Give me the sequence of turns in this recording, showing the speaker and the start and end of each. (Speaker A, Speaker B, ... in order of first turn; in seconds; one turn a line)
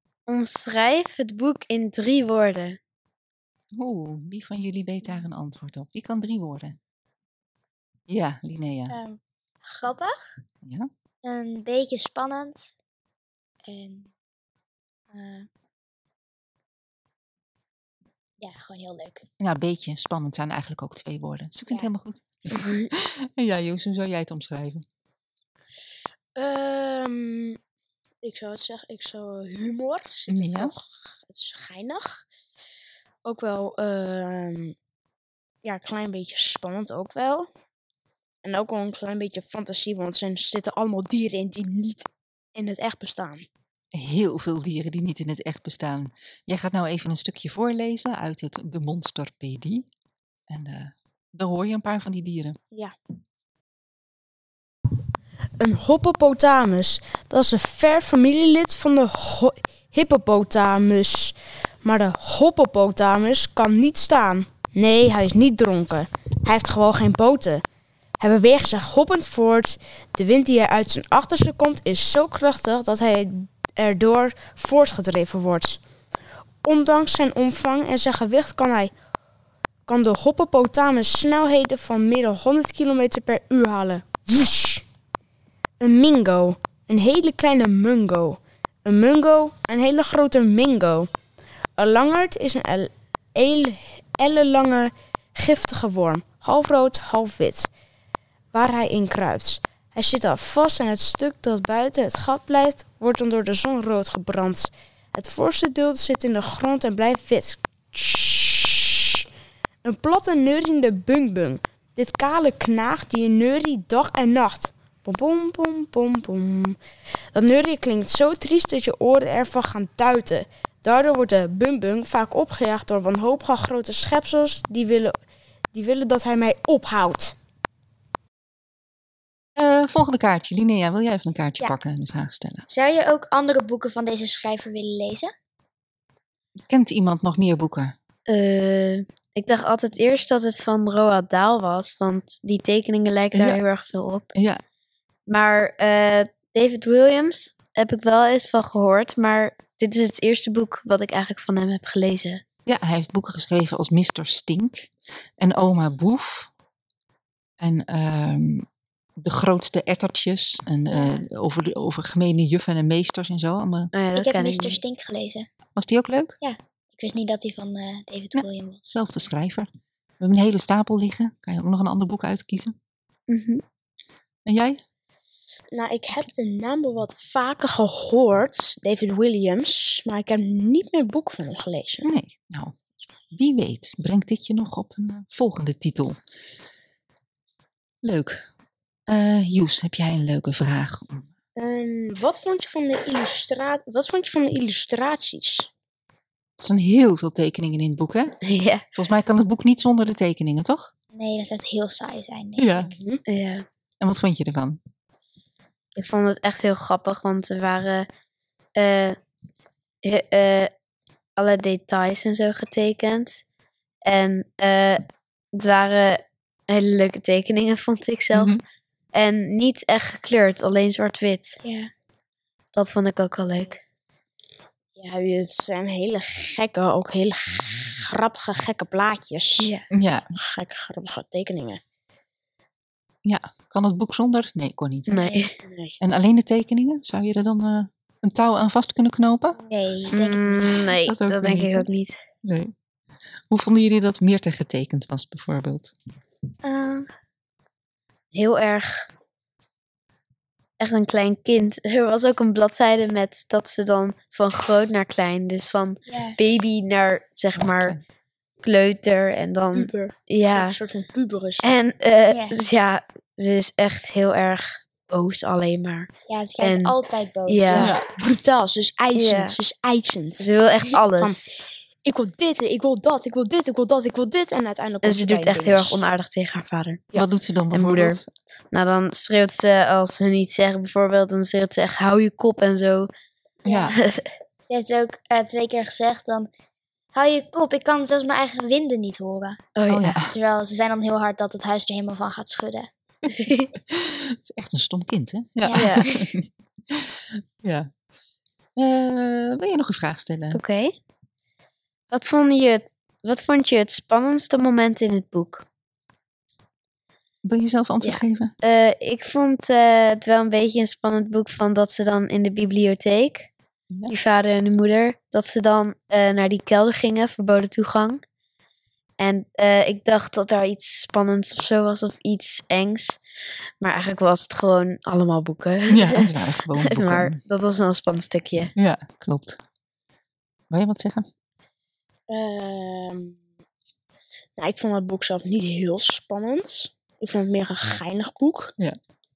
Speaker A: 0.3-2.8
Speaker B: 3.7-6.8
Speaker B: 8.1-9.0
Speaker C: 8.9-10.4
Speaker B: 10.6-10.9
Speaker C: 11.2-12.8
Speaker C: 13.7-14.1
Speaker C: 15.1-15.5
Speaker C: 18.4-19.2
Speaker B: 19.4-24.8
Speaker A: 22.5-22.9
Speaker D: 26.3-27.6
Speaker D: 28.2-32.2
Speaker B: 30.3-30.7
Speaker D: 33.2-34.7
Speaker D: 35.6-37.5
Speaker D: 38.4-43.5
Speaker B: 43.9-49.9
Speaker B: 50.5-52.6
Speaker D: 55.6-67.6
Speaker D: 68.2-75.8
Speaker D: 76.6-78.9
Speaker D: 79.9-84.8
Speaker D: 85.8-91.1
Speaker D: 91.8-97.7
Speaker D: 98.5-109.2
Speaker D: 109.8-116.8
Speaker D: 117.3-125.2
Speaker D: 125.7-127.3
Speaker B: 129.6-132.6
Speaker C: 132.7-135.3
Speaker B: 136.7-137.9
Speaker A: 138.3-144.3
Speaker B: 143.3-143.6
Speaker B: 144.3-144.6
Speaker A: 145.3-152.4
Speaker B: 152.7-156.5
Speaker B: 157.6-158.7
Speaker B: 159.2-163.9
Speaker A: 163.9-164.8
Speaker C: 164.1-165.5
Speaker B: 165.8-166.4
Speaker C: 166.4-168.9
Speaker B: 168.3-169.7
Speaker B: 170.2-172.7
Speaker A: 173.3-173.6
Speaker B: 174.4-174.8
Speaker D: 175.7-182.1
Speaker B: 182.0-182.7
Speaker B: 183.3-186.2
Speaker B: 188.0-188.4
Speaker B: 189.1-191.3
Speaker D: 191.6-195.7
Speaker B: 196.6-198.3
Speaker A: 198.4-198.8
Speaker B: 198.9-200.9
Speaker C: 201.1-202.9
Speaker B: 202.6-202.9
Speaker D: 202.8-203.2
Speaker A: 203.2-203.6
Speaker B: 204.0-204.8
Speaker A: 205.9-208.1
Speaker A: 208.8-209.2
Speaker A: 210.0-210.7
Speaker A: 211.3-213.4
Speaker A: 214.0-215.0
Speaker A: 215.6-218.5
Speaker B: 218.3-218.6
Speaker A: 219.1-221.6
Speaker C: 221.6-221.9
Speaker A: 222.7-223.8
Speaker D: 225.0-229.7
Speaker A: 229.6-229.8
Speaker B: 229.9-230.3
Speaker D: 230.3-231.8
Speaker B: 233.2-235.3
Speaker A: 235.1-235.5
Speaker D: 235.5-236.0
Speaker B: 236.0-239.6
Speaker C: 239.7-240.7
Speaker A: 240.1-242.2
Speaker B: 240.9-241.9
Speaker B: 242.4-242.7
Speaker B: 243.5-245.9
Speaker C: 246.6-247.1
Speaker A: 248.3-249.1
Speaker A: 250.8-258.0
Speaker C: 256.1-256.4
Speaker B: 257.6-258.0
Speaker A: 258.6-260.8
Speaker D: 259.7-261.7
Speaker A: 261.6-266.1
Speaker C: 262.3-262.6
Speaker C: 266.3-267.9
Speaker A: 266.6-266.9
Speaker A: 267.5-267.9
Speaker B: 267.7-268.0
Speaker D: 267.8-270.5
Speaker A: 269.1-269.5
Speaker A: 270.4-271.5
Speaker D: 271.2-271.5
Speaker D: 272.0-276.0
Speaker A: 275.0-278.2
Speaker B: 277.1-278.2
Speaker A: 278.7-283.1
Speaker C: 283.6-283.9
Speaker B: 283.6-283.9
Speaker A: 283.9-284.3
Speaker C: 284.7-286.5
Speaker C: 287.1-289.6
Speaker A: 289.8-290.2
Speaker B: 289.9-290.3
Speaker C: 290.2-292.9
Speaker A: 293.3-293.7
Speaker B: 293.9-297.0
Speaker C: 295.6-296.1
Speaker A: 295.7-296.1
Speaker B: 297.6-297.9
Speaker B: 298.8-300.6
Speaker A: 300.5-300.9
Speaker A: 302.1-305.6
Speaker B: 307.4-308.5
Speaker A: 308.0-313.5
Speaker B: 313.9-314.1
Speaker A: 314.1-318.2
Speaker A: 319.2-323.2
Speaker A: 323.8-328.7
Speaker B: 325.9-327.4
Speaker B: 328.8-329.6
Speaker B: 330.7-331.2
Speaker D: 332.3-333.4
Speaker D: 334.6-338.7